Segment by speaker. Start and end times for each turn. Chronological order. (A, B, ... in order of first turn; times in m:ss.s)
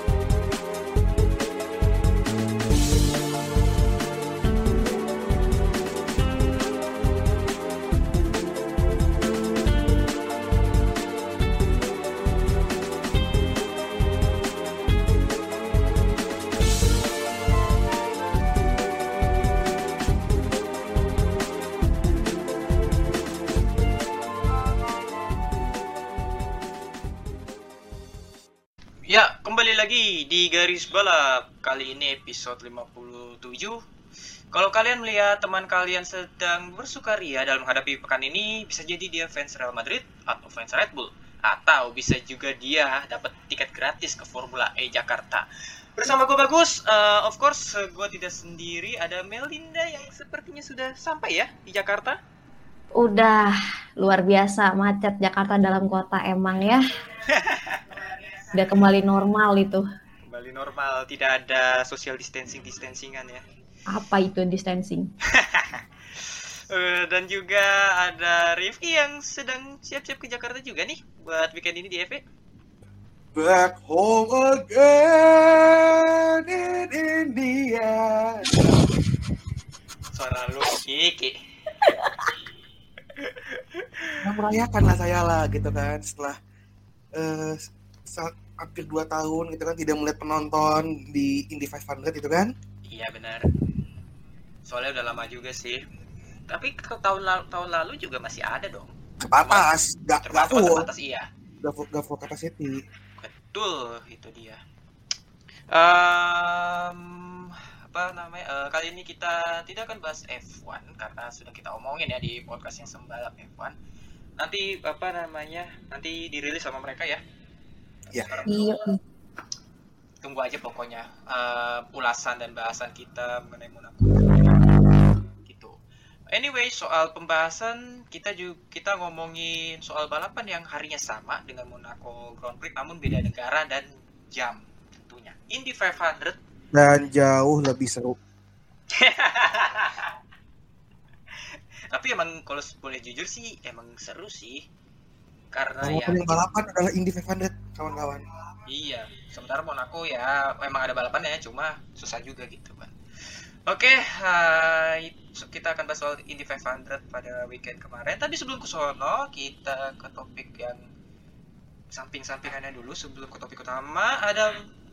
0:29.1-0:33.8 A
0:34.5-0:52.2 A
0:52.9-0:56.8 B
0:57.3-0:57.8 A
0:58.5-0:59.8 B
1:00.3-1:03.4 A
1:03.9-1:05.1 B
1:05.3-1:12.2 A
1:13.3-1:18.6 C
1:20.1-1:21.3 A
1:23.2-1:24.2 A
1:24.2-1:26.4 C
1:27.1-1:32.5 C
1:32.9-1:33.5 A
1:34.7-1:35.8 A
1:36.5-1:39.7 A
1:39.2-1:40.9 C
1:40.2-1:41.3 A
1:41.6-1:42.8 C
1:43.2-1:44.6 A
1:45.7-1:53.7 A
1:54.4-1:57.2 A
1:58.1-1:58.6 A
1:58.4-1:59.0 B
2:00.2-2:04.7 A
2:05.4-2:05.8 A
2:06.3-2:16.4 A
2:16.7-2:18.2 C
2:18.9-2:20.1 A
2:21.9-2:24.6 A
2:25.5-2:26.3 A
2:25.8-2:28.2 C
2:28.7-2:40.8 A
2:41.9-2:44.6 A